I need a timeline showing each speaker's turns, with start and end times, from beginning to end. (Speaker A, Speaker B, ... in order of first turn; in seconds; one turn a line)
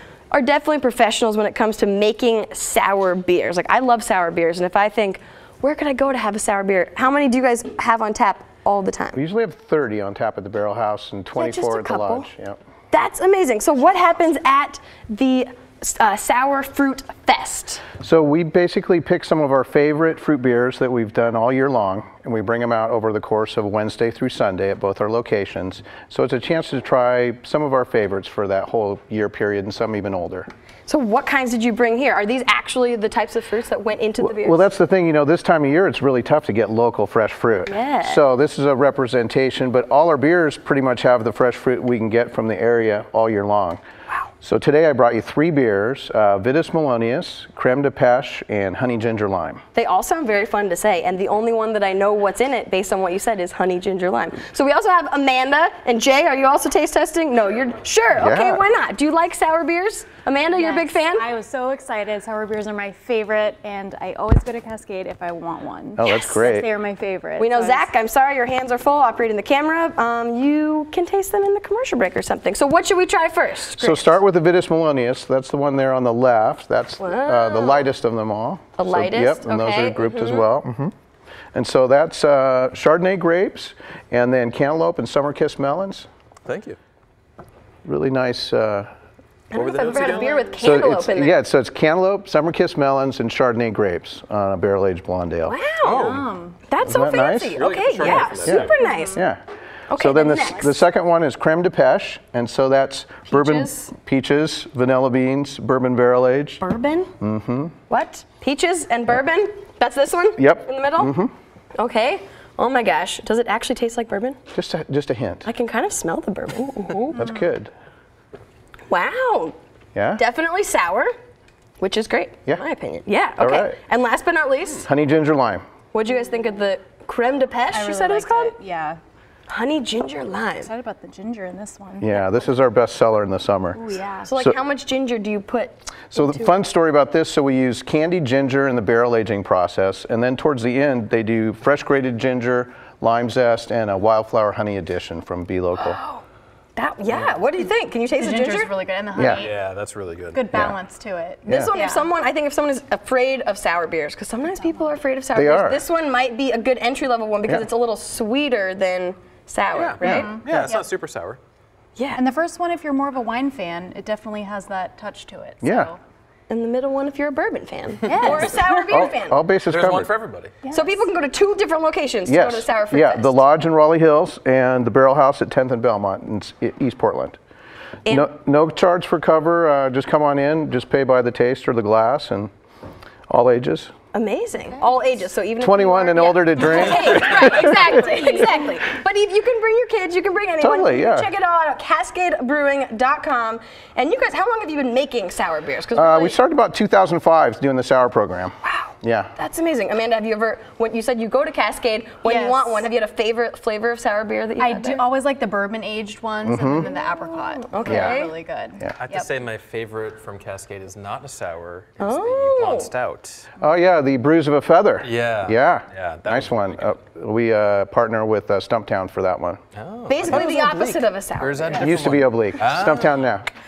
Speaker A: 0.3-9.2
Speaker B: 9.1-12.6
Speaker A: 11.3-12.3
Speaker A: 12.9-17.9
Speaker B: 18.0-30.5
Speaker A: 30.9-34.7
Speaker B: 34.2-43.8
Speaker A: 37.7-38.2
Speaker B: 44.4-49.6
Speaker A: 49.7-61.3
Speaker B: 58.2-58.6
Speaker C: 60.5-67.9
Speaker B: 66.0-66.7
Speaker A: 67.4-74.2
Speaker B: 73.8-80.9
Speaker A: 77.0-77.8
Speaker A: 78.8-80.5
Speaker B: 81.5-86.1
Speaker D: 86.5-86.8
Speaker B: 87.8-88.9
Speaker A: 89.5-91.4
Speaker D: 89.5-90.6
Speaker B: 90.6-95.6
Speaker A: 95.4-99.2
Speaker D: 95.8-96.4
Speaker C: 95.9-96.5
Speaker B: 96.8-97.6
Speaker D: 97.5-98.8
Speaker B: 98.4-99.4
Speaker A: 99.9-100.8
Speaker B: 99.9-106.6
Speaker A: 103.3-103.9
Speaker A: 106.6-107.1
Speaker B: 107.2-107.8
Speaker A: 107.9-111.2
Speaker B: 110.4-111.3
Speaker A: 111.8-114.4
Speaker B: 114.5-115.5
Speaker A: 115.4-117.2
Speaker B: 117.1-117.7
Speaker A: 118.9-119.5
Speaker B: 119.9-120.2
Speaker A: 120.1-121.1
Speaker A: 121.8-124.9
Speaker B: 123.4-123.8
Speaker B: 124.8-125.6
Speaker A: 125.9-128.5
Speaker C: 127.7-129.0
Speaker A: 129.5-130.7
Speaker C: 130.6-132.2
Speaker B: 132.0-134.6
Speaker A: 133.8-136.2
Speaker B: 136.1-146.0
Speaker A: 145.8-146.2
Speaker A: 146.8-148.7
Speaker C: 148.2-149.6
Speaker B: 149.2-149.5
Speaker D: 149.2-150.5
Speaker C: 150.3-152.1
Speaker B: 151.5-151.7
Speaker A: 151.5-160.3
Speaker B: 155.3-155.8
Speaker D: 159.7-161.4
Speaker B: 160.0-160.3
Speaker C: 160.0-160.9
Speaker A: 161.9-162.2
Speaker C: 162.2-166.0
Speaker B: 165.6-165.9
Speaker A: 166.5-169.4
Speaker C: 168.0-168.7
Speaker B: 168.9-170.1
Speaker D: 169.7-170.5
Speaker C: 170.7-171.0
Speaker A: 170.7-173.4
Speaker B: 172.2-177.4
Speaker B: 178.1-182.5
Speaker B: 183.3-183.9
Speaker A: 184.1-196.4
Speaker B: 185.6-187.9
Speaker C: 187.1-188.5
Speaker B: 190.6-191.3
Speaker B: 195.9-199.3
Speaker A: 198.7-205.0
Speaker C: 202.2-202.8
Speaker C: 204.6-209.3
Speaker B: 206.4-206.9
Speaker A: 207.1-208.3
Speaker B: 207.8-208.2
Speaker D: 208.9-213.5
Speaker A: 212.0-212.9
Speaker B: 213.6-219.6
Speaker D: 215.0-216.9
Speaker D: 219.8-223.2
Speaker A: 220.1-221.9
Speaker B: 221.8-223.4